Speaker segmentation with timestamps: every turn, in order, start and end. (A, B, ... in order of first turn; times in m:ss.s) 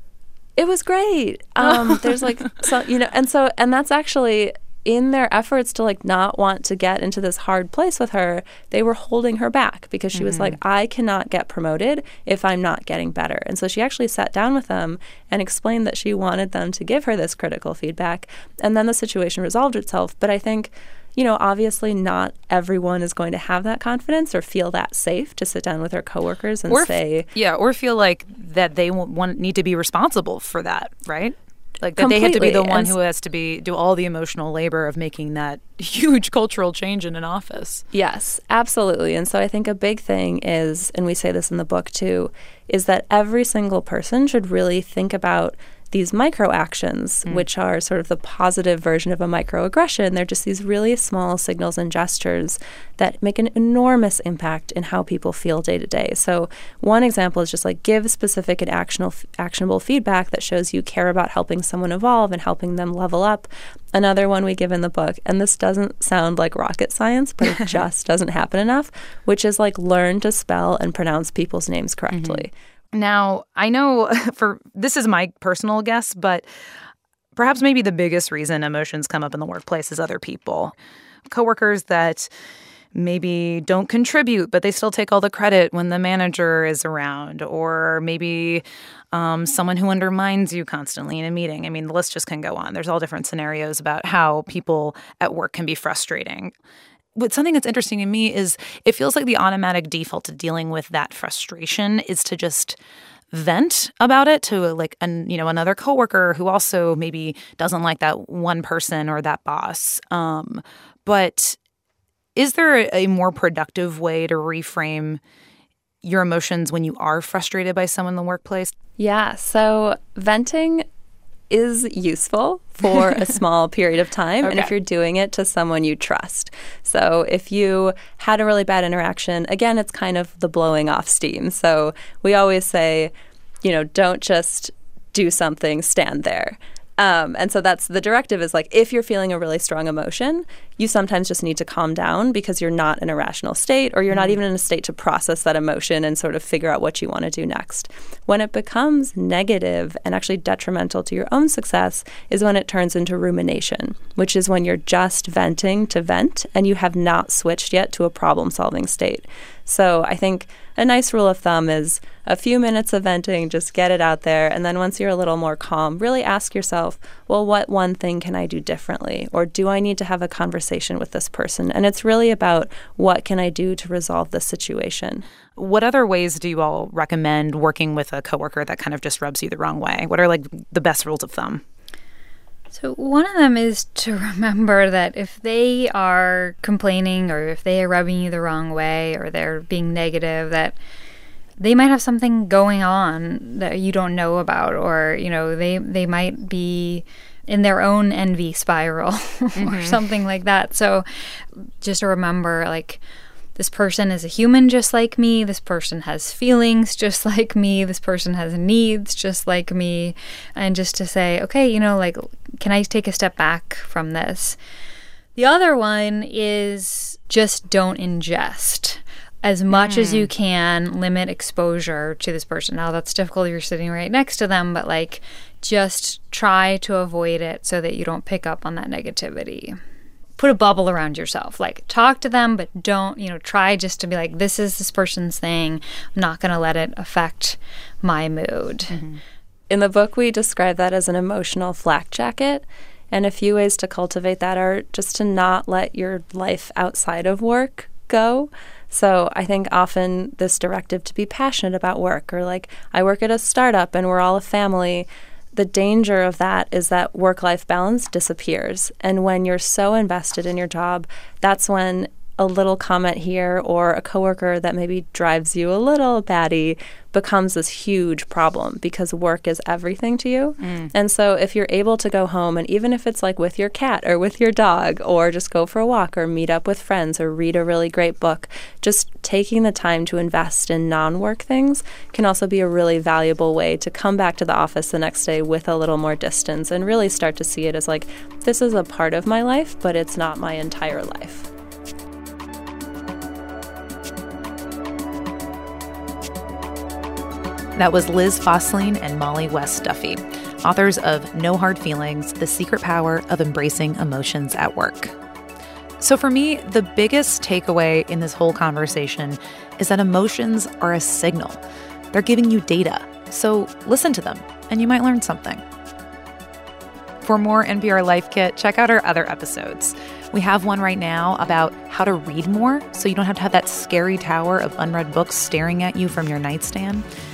0:00.6-0:27.3 A
0:10.1-0:10.6 B
0:26.7-0:37.8 B
0:32.0-0:33.0 A
0:37.9-1:12.5 A
1:12.1-1:16.5 B
1:17.3-1:20.7 B
1:21.3-1:22.3 B
1:22.9-1:36.5 B
1:37.1-1:42.8 B
1:43.3-1:51.6 B
1:52.4-1:55.2 B
1:56.0-1:58.7 B
1:59.0-2:00.8 A
2:01.5-2:13.1 A
2:13.6-2:55.2 A
2:24.1-2:24.4 B
2:55.6-3:01.6 B
3:02.7-3:10.8 C
3:11.6-3:23.0 C
3:19.6-3:20.0 B
3:23.6-3:34.6 C
3:35.4-3:49.8 C
3:39.7-3:40.3 B
3:50.4-3:59.0 C
3:58.9-3:59.2 B
3:59.7-4:51.5 A
4:30.6-4:30.9 B
4:57.8-5:05.1 B
5:06.0-5:11.6 B
5:12.1-5:15.6 B
5:17.2-5:27.0 B